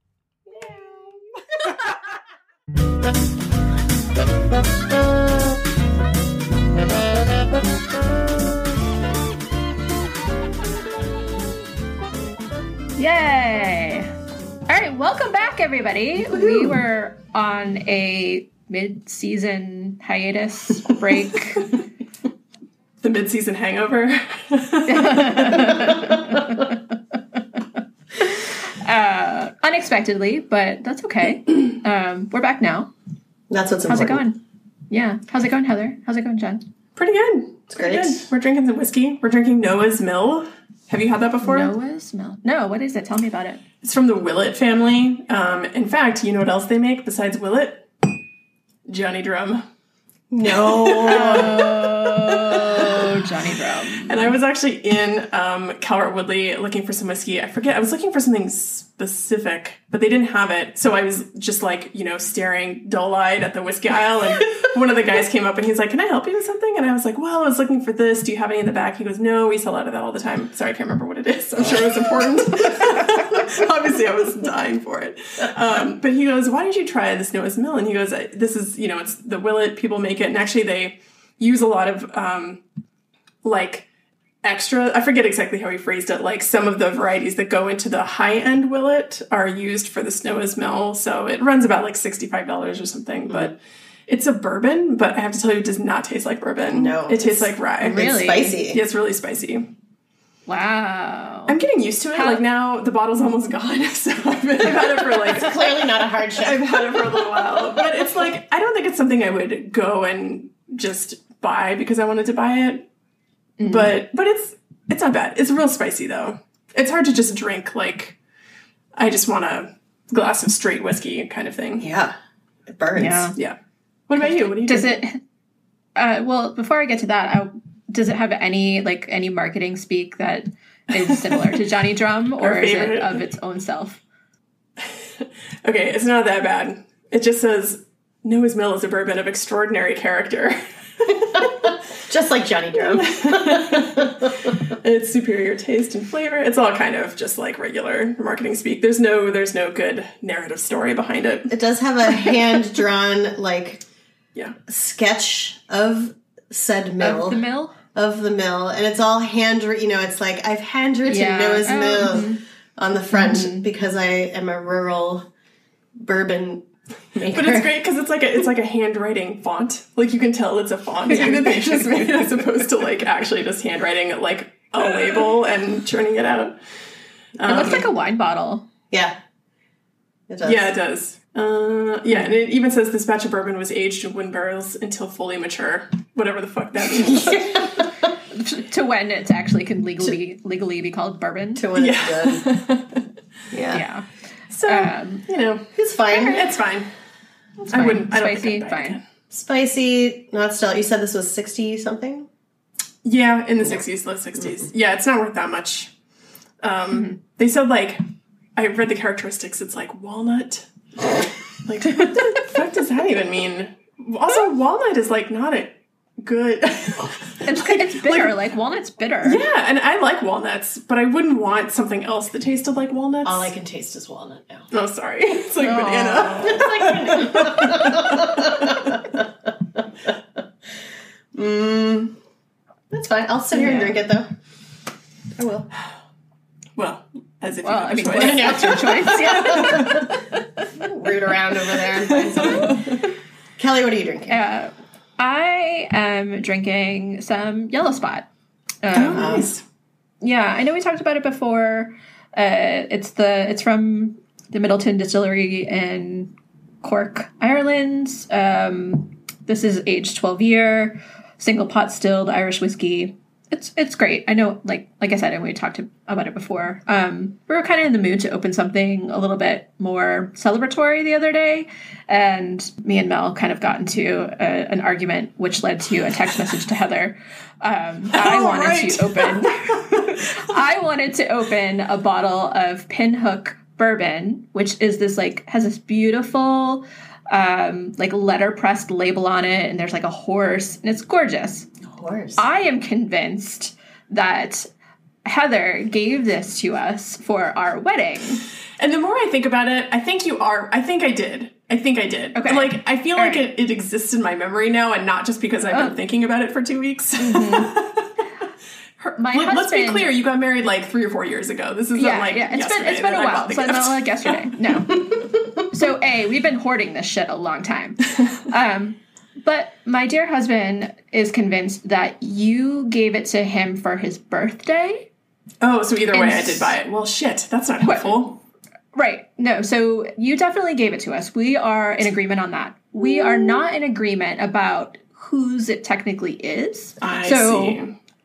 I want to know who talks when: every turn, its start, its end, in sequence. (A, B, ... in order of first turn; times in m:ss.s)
0:00.5-0:01.2 A
0:13.0-0:14.1 A
0:14.7-0:21.7 A
0:16.3-0:16.8 B
0:23.0-0:26.0 C
0:24.9-0:26.8 A
0:28.2-0:32.9 A
0:33.5-0:34.2 B
0:33.9-0:34.4 A
0:34.9-0:36.7 A
0:37.0-0:41.7 C
0:37.7-0:38.2 B
0:41.4-0:43.6 A
0:43.8-0:47.9 C
0:48.9-0:49.6 C
0:50.3-0:51.7 B
0:50.9-0:51.7 C
0:51.0-0:54.4 A
0:54.0-1:22.6 C
1:23.4-1:23.9 C
1:24.4-1:38.0 C
1:33.3-1:33.5 B
1:36.7-1:38.8 B
1:37.8-1:38.6 A
1:38.7-1:39.7 C
1:40.5-1:41.6 A
1:41.5-1:52.9 C
1:42.1-1:42.4 A
1:45.2-1:46.7 B
1:53.6-1:53.9 A
1:53.6-1:58.2 C
1:59.0-2:01.9 C
2:01.8-2:02.2 B
2:02.7-2:03.3 B
2:03.0-2:03.4 A
2:04.1-2:05.0 C
2:04.4-2:05.2 A
2:06.0-2:14.0 A
2:10.9-2:11.6 C
2:12.4-2:13.2 C
2:14.8-2:21.4 C
2:21.4-2:24.5 B
2:22.9-2:31.5 C
2:31.5-2:33.8 B
2:34.7-2:37.4 B
2:37.0-2:37.8 A
2:37.9-2:45.3 B
2:41.0-2:42.4 A
2:43.1-2:43.7 A
2:46.0-2:47.8 B
2:47.3-2:56.6 C
2:51.1-2:51.8 A
2:57.4-2:57.9 C
2:57.4-2:58.7 A
2:58.9-2:59.2 B
3:00.3-3:00.7 B
3:00.4-3:07.8 C
3:06.9-3:08.1 B
3:08.3-3:11.7 A
3:11.6-3:12.4 B
3:11.8-3:13.0 C
3:13.5-3:13.8 B
3:13.7-3:14.1 A
3:14.5-3:16.9 C
3:14.7-3:15.2 A
3:15.8-3:16.6 B
3:17.6-3:19.0 A
3:17.7-3:19.0 C
3:19.3-3:22.3 B
3:23.0-3:25.9 C
3:26.6-3:28.0 C
3:26.9-3:27.2 A
3:28.6-3:30.7 C
3:31.6-3:38.4 C
3:37.4-3:39.4 A
3:39.2-3:43.5 C
3:43.2-3:44.7 B
3:44.7-3:49.0 C
3:45.6-3:50.2 B
3:51.3-3:52.2 B
3:52.9-3:54.3 B
3:53.5-3:54.0 C
3:55.4-3:55.7 B
3:56.8-4:00.1 C
3:57.6-4:00.6 A
3:58.1-4:00.1 B
4:00.8-4:03.0 B
4:02.1-4:03.0 C
4:03.6-4:04.4 B
4:04.3-4:08.3 A
4:08.8-4:09.5 A
4:08.9-4:09.6 C
4:09.0-4:09.5 B
4:10.2-4:51.7 A
4:38.1-4:40.1 C
4:51.9-4:52.4 B
4:52.4-4:54.7 A
4:55.2-4:58.4 A
4:58.8-5:08.1 C
5:02.4-5:03.5 A
5:05.7-5:06.0 A
5:07.2-5:07.7 A
5:09.0-5:14.9 C
5:09.2-5:10.1 A
5:11.9-5:25.1 A
5:25.6-5:28.4 C
5:26.1-5:26.8 A
5:27.8-5:28.3 A
5:28.9-5:37.8 A
5:37.0-5:38.0 C